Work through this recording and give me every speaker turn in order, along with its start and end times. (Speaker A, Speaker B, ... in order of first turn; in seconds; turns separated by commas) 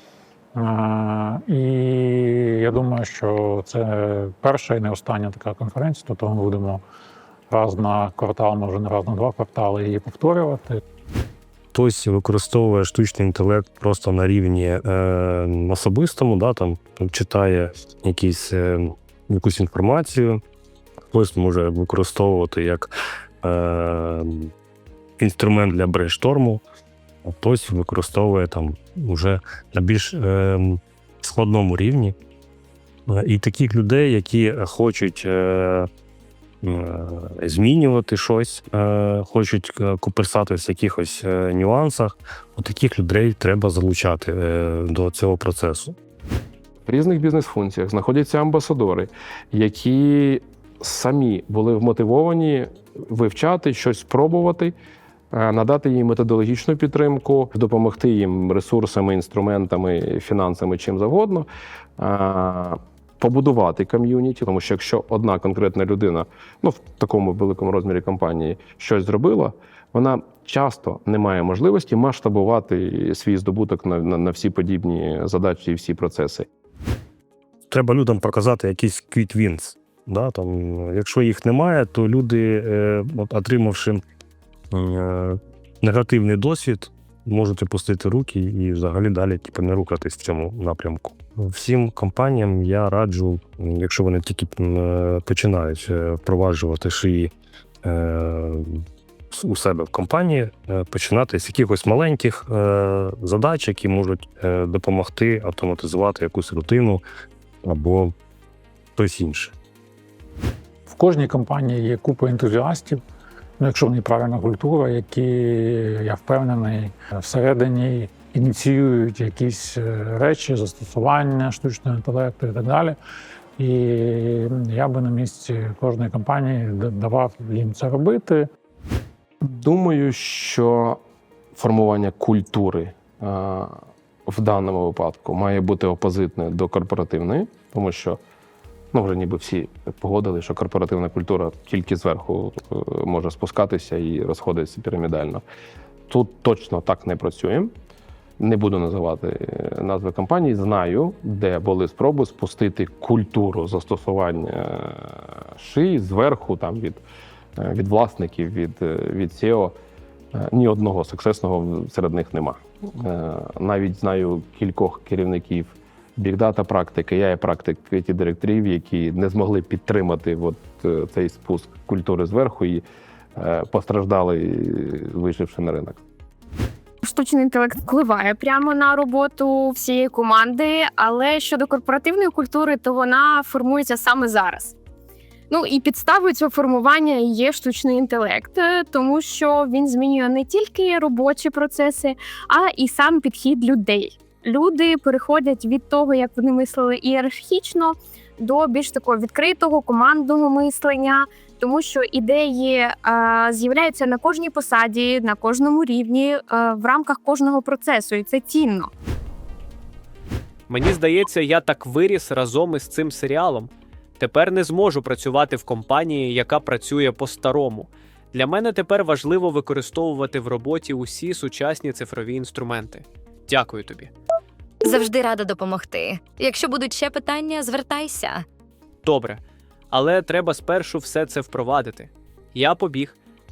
Speaker A: 0.5-6.8, Speaker A: 7.5-10.8, Speaker B: 11.7-20.4, Speaker B: 21.1-22.9, Speaker B: 23.4-24.5, Speaker B: 25.2-26.6, Speaker B: 27.2-32.1, Speaker B: 33.1-35.9, Speaker B: 36.6-46.0, Speaker C: 46.8-54.7, Speaker C: 55.3-76.5, Speaker B: 77.7-84.0, Speaker B: 84.7-97.3, Speaker B: 97.8-98.8, Speaker B: 99.3-107.0, Speaker B: 107.6-108.1, Speaker B: 109.0-109.5, Speaker A: 110.9-113.0, Speaker A: 113.6-123.0, Speaker A: 123.6-128.5, Speaker C: 129.4-131.0, Speaker C: 131.5-138.2, Speaker C: 138.9-145.4, Speaker C: 146.1-147.7, Speaker C: 148.4-157.0, Speaker C: 157.6-159.7, Speaker C: 160.3-172.8, Speaker C: 173.4-176.0, Speaker D: 177.0-184.7, Speaker D: 185.5-208.9, Speaker E: 210.7-224.1, Speaker F: 224.8-228.4, Speaker E: 229.0-233.2